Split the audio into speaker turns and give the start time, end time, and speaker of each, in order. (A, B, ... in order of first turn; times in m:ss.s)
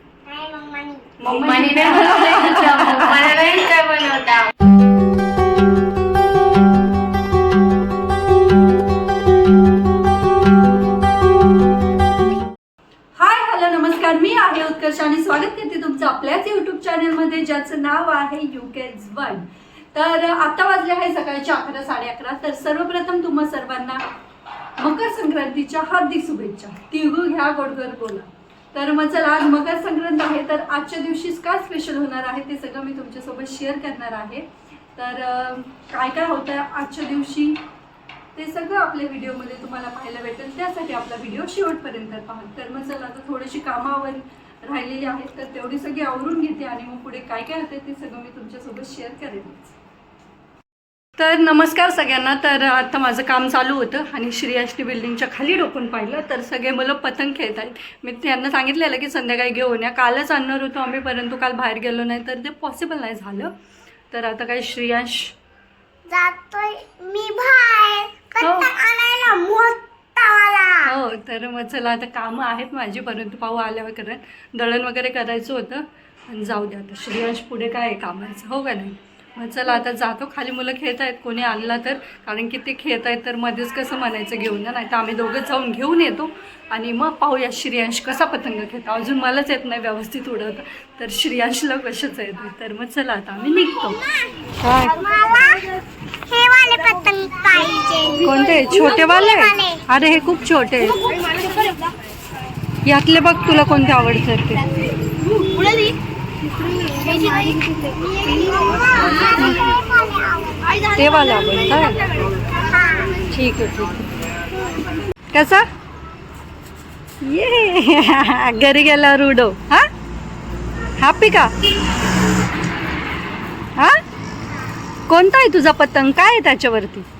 0:00.3-0:01.3 A
0:01.2-0:03.4 B
0:01.3-0:04.5 C
0:13.2-0:24.0 B
0:24.8-0:37.6 B
0:38.4-0:49.7 B
0:51.2-1:03.5 B
1:04.1-1:05.4 B
1:06.1-1:10.9 A
1:08.4-1:08.8 B
1:10.8-1:34.0 B
1:34.0-1:34.3 A
1:34.6-1:35.1 B
1:35.0-1:35.7 A
1:36.3-1:39.8 A
1:38.2-1:41.0 B
1:41.3-1:41.6 C
1:42.8-1:44.7 B
1:45.4-1:45.9 C
1:46.6-1:48.6 C
1:47.2-1:50.9 A
1:49.2-1:49.8 B
1:50.9-1:52.1 B
1:52.5-1:53.2 A
1:53.3-1:54.1 B
1:55.3-1:55.7 B
1:57.2-1:59.9 B
2:01.0-2:01.6 B
2:03.8-2:04.0 B
2:05.1-2:07.1 B